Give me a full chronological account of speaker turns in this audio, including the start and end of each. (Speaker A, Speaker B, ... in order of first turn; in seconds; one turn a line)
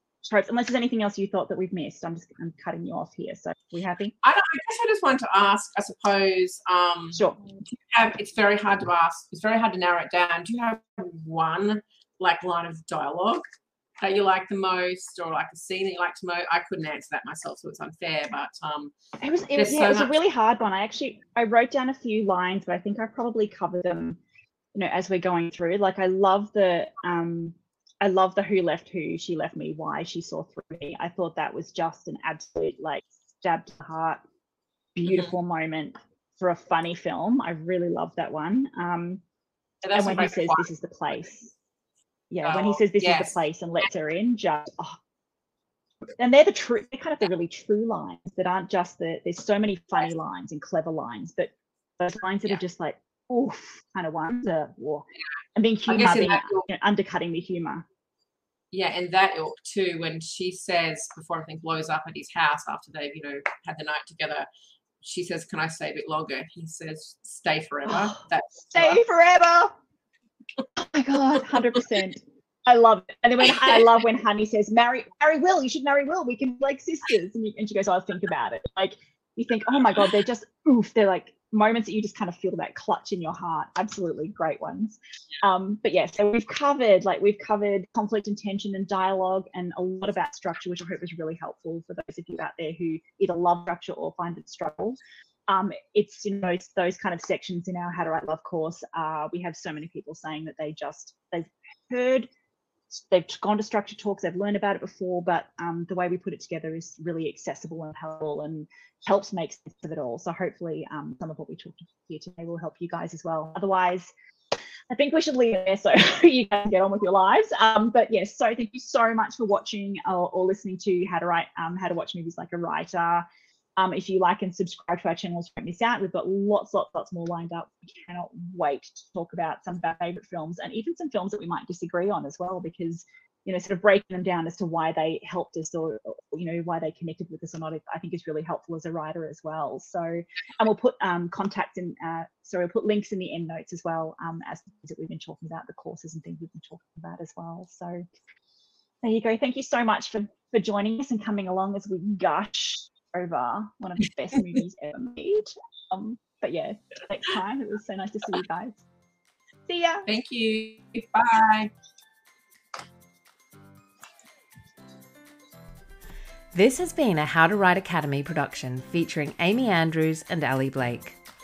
Speaker A: 0.2-4.1
Speaker B: 4.2-13.4
Speaker A: 7.1-7.4
Speaker B: 14.0-18.9
Speaker A: 19.2-24.2
Speaker B: 19.6-20.1
Speaker A: 24.7-34.2
Speaker A: 34.9-39.2
Speaker B: 39.8-40.7
Speaker A: 39.9-41.5
Speaker A: 42.3-45.0
Speaker B: 42.4-43.4
Speaker A: 46.2-57.8
Speaker B: 55.9-56.7
Speaker B: 58.7-64.5
Speaker B: 65.0-69.0
Speaker A: 67.9-68.2
Speaker A: 68.7-69.7
Speaker A: 70.8-102.3
Speaker A: 102.9-114.1
Speaker A: 114.9-123.2
Speaker A: 123.8-148.0
Speaker A: 149.0-158.8
Speaker A: 159.7-160.1
Speaker B: 160.1-161.7
Speaker C: 166.5-171.2